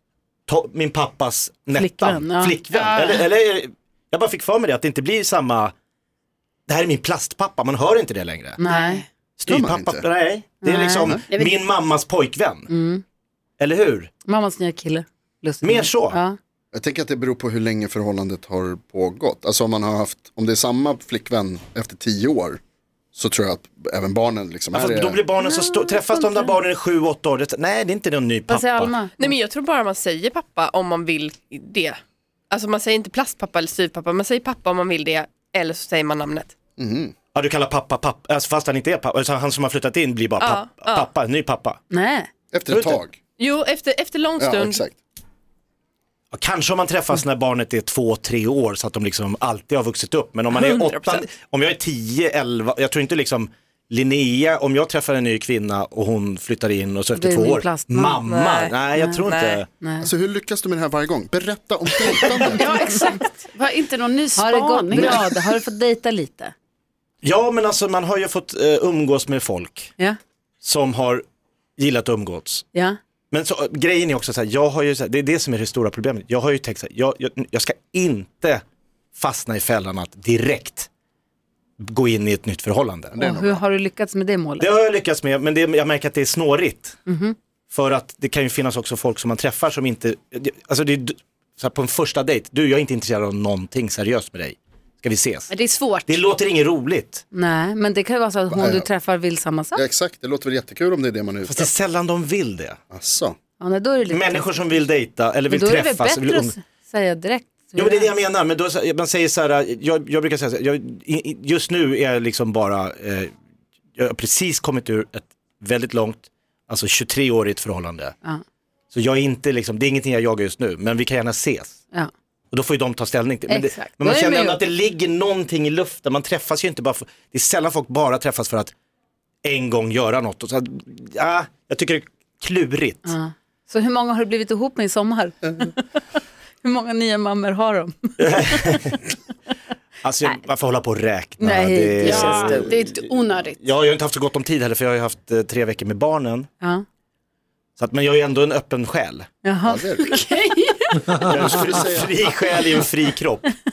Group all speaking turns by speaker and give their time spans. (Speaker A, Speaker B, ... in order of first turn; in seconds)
Speaker A: 0.5-5.7, 6.7-8.6, 9.4-12.7, 13.6-14.1, 15.6-16.2, 24.7-28.9, 37.3-41.8, 42.7-43.0, 46.3-59.6, 67.2-69.9, 70.6-71.2, 71.8-72.6, 73.3-78.6, 79.2-80.9, 81.8-83.2, 84.6-87.0, 87.7-95.5, 96.0-97.2, 101.5-102.8, 104.1-106.5, 107.8-113.3, 114.0-118.1, 118.9-121.8, 122.5-128.7, 129.4-133.1, 138.2-139.0, 140.0-146.5, 147.8-149.3, 151.1-153.5
Speaker B: 1.7-2.6, 8.6-9.0, 10.6-11.2, 12.7-13.0, 14.3-16.4, 25.4-26.5, 28.5-29.3, 41.9-42.3, 57.1-58.2, 58.9-59.2, 59.8-60.1, 64.3-66.5, 83.2-84.7, 87.1-87.3, 97.3-99.8, 103.6-104.5, 105.5-108.1, 123.5-124.6, 133.1-135.8, 136.6-138.8, 141.4-142.7, 149.4-149.8
Speaker C: 2.7-3.3, 8.6-9.0, 11.3-11.6, 62.5-65.3, 95.5-96.2, 142.0-143.6, 150.0-151.8
Speaker D: 9.5-10.0, 16.7-22.6, 23.1-25.2, 36.8-37.1, 42.5-43.2, 44.4-44.9, 60.0-62.8, 83.1-83.6, 98.5-98.9, 99.7-101.7, 102.9-103.3, 149.6-150.1
Speaker E: 29.2-32.0, 32.5-36.5, 40.4-41.1, 43.4-44.8, 50.5-51.3, 58.2-58.7, 59.2-59.6